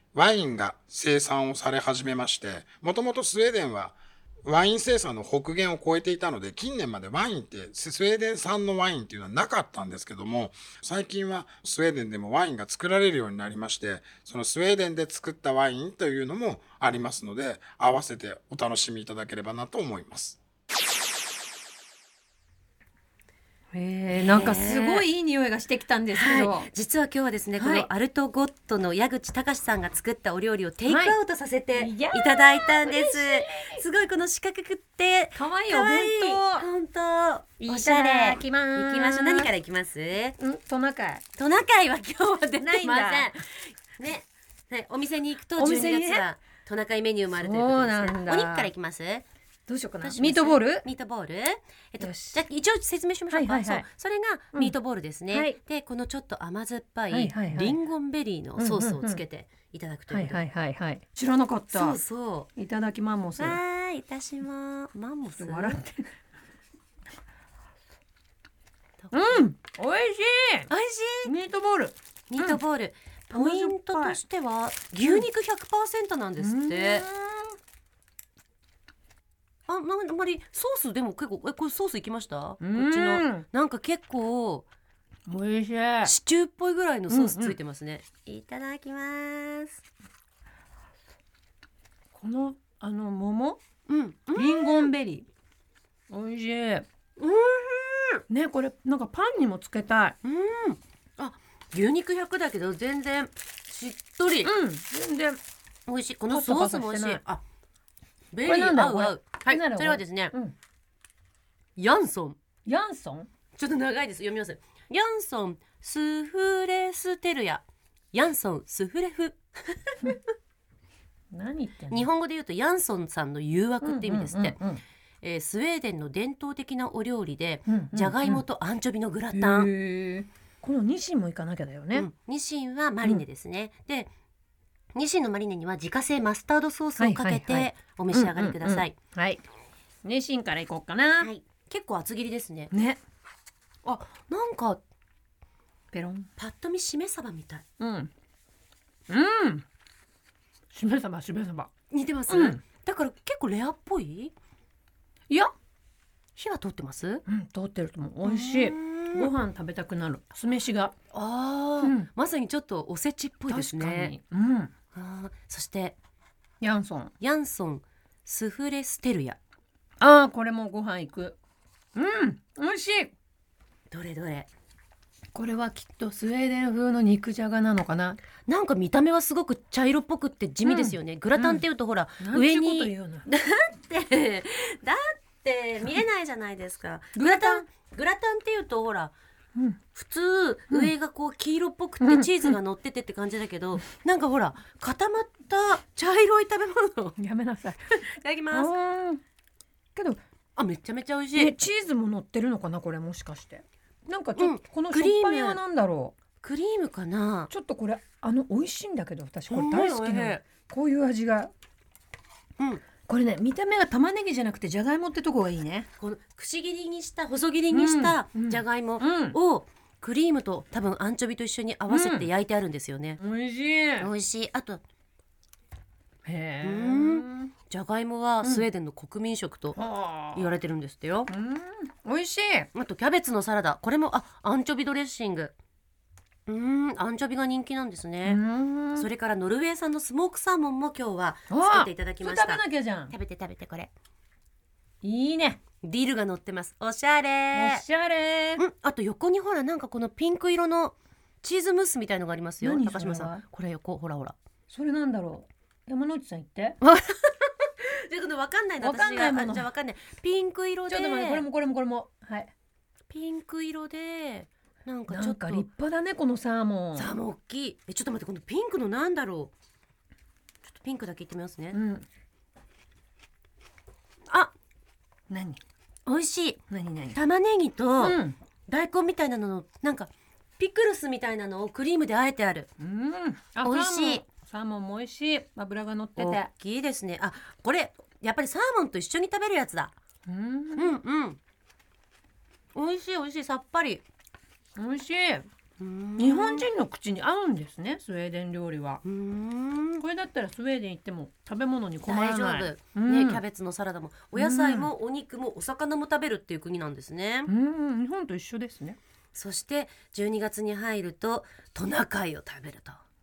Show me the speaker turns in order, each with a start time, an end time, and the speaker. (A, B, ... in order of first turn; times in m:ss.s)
0:00.1-0:20.4 A
0:23.7-0:26.7 B
0:24.2-0:25.0 C
0:26.1-0:40.4 C
0:27.6-0:27.9 B
0:30.9-0:31.2 B
0:31.8-0:33.8 B
0:35.4-0:36.7 B
0:37.6-0:39.5 B
0:40.4-0:41.2 B
0:41.4-0:49.2 C
0:42.6-0:43.3 B
0:45.6-0:46.2 B
0:47.3-0:48.7 B
0:49.7-0:50.8 B
0:50.0-1:00.4 C
0:52.0-0:52.4 B
0:53.3-0:53.9 B
0:55.3-0:55.6 B
0:57.1-0:57.8 B
0:58.6-0:59.2 B
1:00.1-1:02.0 B
1:01.7-1:02.5 C
1:02.6-1:03.6 B
1:03.4-1:05.8 C
1:05.4-1:06.1 B
1:09.0-1:09.4 C
1:09.1-1:10.7 B
1:10.7-1:11.3 C
1:11.2-1:12.6 B
1:12.3-1:17.1 C
1:13.3-1:14.2 B
1:16.4-1:17.6 B
1:19.7-1:24.7 C
1:22.6-1:23.5 B
1:25.3-1:26.1 B
1:26.0-1:29.8 C
1:27.1-1:27.6 B
1:32.1-1:33.6 B
1:33.9-1:34.9 C
1:34.4-1:35.3 B
1:36.1-1:36.9 B
1:37.2-1:38.2 C
1:38.3-1:40.2 B
1:40.2-1:44.5 C
1:44.4-1:45.4 B
1:45.9-1:47.4 C
1:46.3-1:47.2 B
1:48.3-1:50.3 C
1:48.4-1:50.6 B
1:51.8-1:52.4 C
1:52.7-1:53.3 B
1:53.6-2:00.1 C
2:01.3-2:02.1 B
2:01.9-2:04.6 C
2:03.8-2:04.8 B
2:05.2-2:09.7 C
2:07.7-2:08.4 B
2:09.3-2:12.1 B
2:11.9-2:14.1 C
2:15.0-2:19.0 C
2:17.0-2:19.4 B
2:20.0-2:21.3 B
2:21.2-2:22.7 C
2:22.7-2:23.0 B
2:23.8-2:24.8 C
2:25.9-2:26.3 B
2:26.4-2:27.6 C
2:27.8-2:28.1 B
2:29.1-2:29.6 B
2:30.7-2:31.7 B
2:31.9-2:34.3 C
2:32.3-2:32.6 B
2:36.4-2:37.2 C
2:37.3-2:41.0 B
2:38.2-2:39.3 C
2:41.1-2:44.1 C
2:41.8-2:42.1 B
2:43.5-2:44.7 B
2:45.0-2:46.0 C
2:46.6-2:47.1 B
2:47.2-2:49.4 C
2:50.0-2:51.4 B
2:52.0-2:53.1 B
2:53.9-2:54.5 C
2:55.3-2:58.2 B
2:58.5-3:09.1 C
3:00.6-3:01.6 B
3:02.2-3:03.3 B
3:07.2-3:07.7 B
3:09.9-3:17.2 C
3:12.0-3:12.5 B
3:17.2-3:18.0 B
3:18.1-3:18.7 C
3:18.5-3:19.2 B
3:20.6-3:21.6 C
3:21.4-3:26.2 B
3:24.4-3:25.6 C
3:26.4-3:27.5 C
3:27.5-3:31.5 B
3:29.5-3:30.4 C
3:33.1-3:35.9 B
3:36.0-3:43.2 C
3:37.7-3:39.4 B
3:41.9-3:42.3 B
3:43.2-3:44.1 B
3:44.0-3:44.8 C
3:46.3-3:47.5 B
3:46.6-3:49.8 C
3:49.8-3:50.5 B
3:50.3-3:51.3 C
3:51.3-3:52.7 B
3:52.7-3:55.5 C
3:56.5-3:58.4 C
3:58.2-3:59.1 B
3:59.0-4:03.9 C
4:01.5-4:03.1 B
4:05.0-4:05.6 B
4:05.8-4:07.8 C
4:07.5-4:08.6 B
4:08.6-4:14.4 C
4:12.6-4:13.4 B
4:14.7-4:16.8 B
4:16.8-4:21.4 C
4:18.8-4:19.7 B
4:20.9-4:22.5 B
4:23.1-4:25.7 C
4:25.1-4:27.1 B
4:27.0-4:29.5 C
4:30.6-4:31.8 C
4:31.7-4:32.1 B
4:35.3-4:35.6 B
4:36.1-4:36.6 C
4:36.7-4:37.2 B
4:37.1-4:42.7 C
4:38.0-4:38.4 B
4:42.8-4:46.5 B
4:43.6-4:44.2 C
4:46.2-4:49.9 C
4:50.3-4:51.0 B
4:50.8-4:51.4 C
4:52.8-4:54.0 C
4:54.8-4:55.5 B
4:55.8-4:56.6 C
4:56.2-4:59.0 B
4:59.0-5:00.0 C
5:00.0-5:03.4 B
5:02.1-5:07.5 C
5:04.4-5:04.9 B
5:07.5-5:09.0 B
5:09.3-5:13.0 C